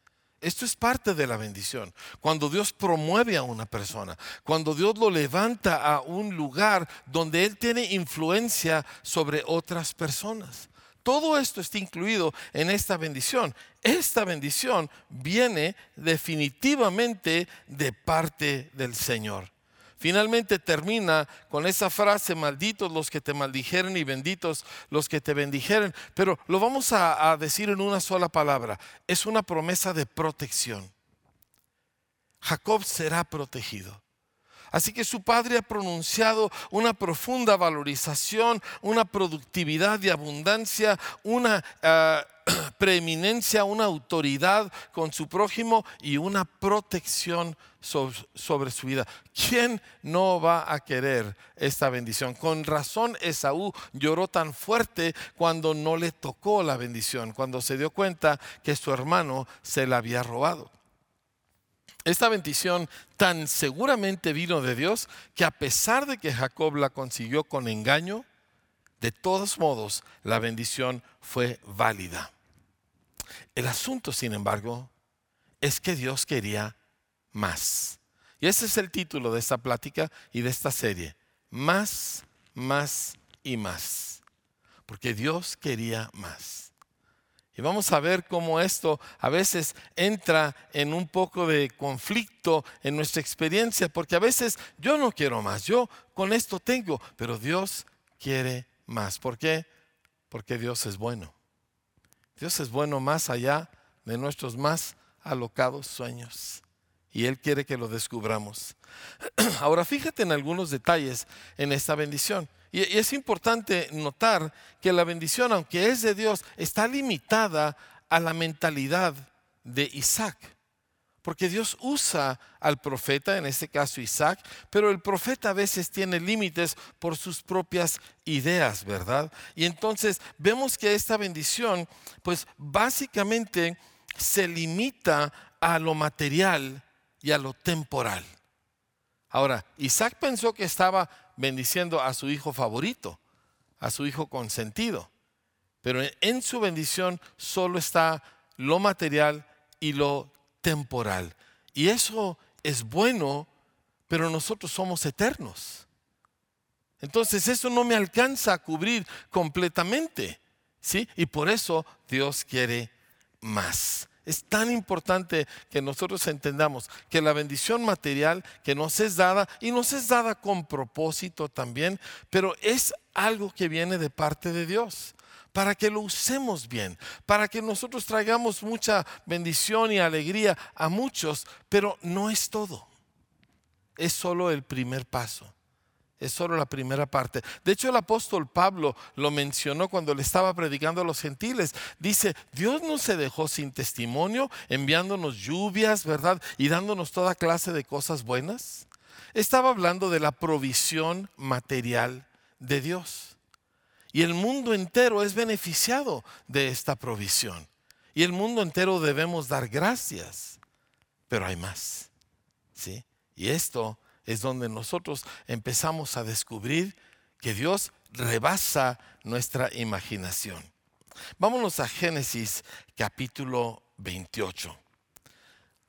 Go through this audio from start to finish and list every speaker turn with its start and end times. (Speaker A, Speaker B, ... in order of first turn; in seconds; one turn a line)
Speaker A: 0.4-30.9
Speaker A: 32.4-34.0
Speaker A: 34.7-60.7
Speaker A: 62.0-68.2
Speaker A: 69.0-72.3
Speaker A: 73.5-74.9
Speaker A: 75.6-76.8
Speaker A: 77.3-84.2
Speaker A: 84.9-86.7
Speaker A: 87.5-99.7
Speaker A: 100.3-101.3
Speaker A: 102.4-120.5
Speaker A: 121.2-138.3
Speaker A: 139.3-143.2
Speaker A: 143.8-145.1
Speaker A: 145.8-153.5
Speaker A: 154.1-155.8
Speaker A: 157.0-182.9
Speaker A: 184.0-185.5
Speaker A: 186.2-203.4
Speaker A: 204.1-210.6
Speaker A: 211.3-212.1
Speaker A: 212.7-220.7
Speaker A: 221.4-224.8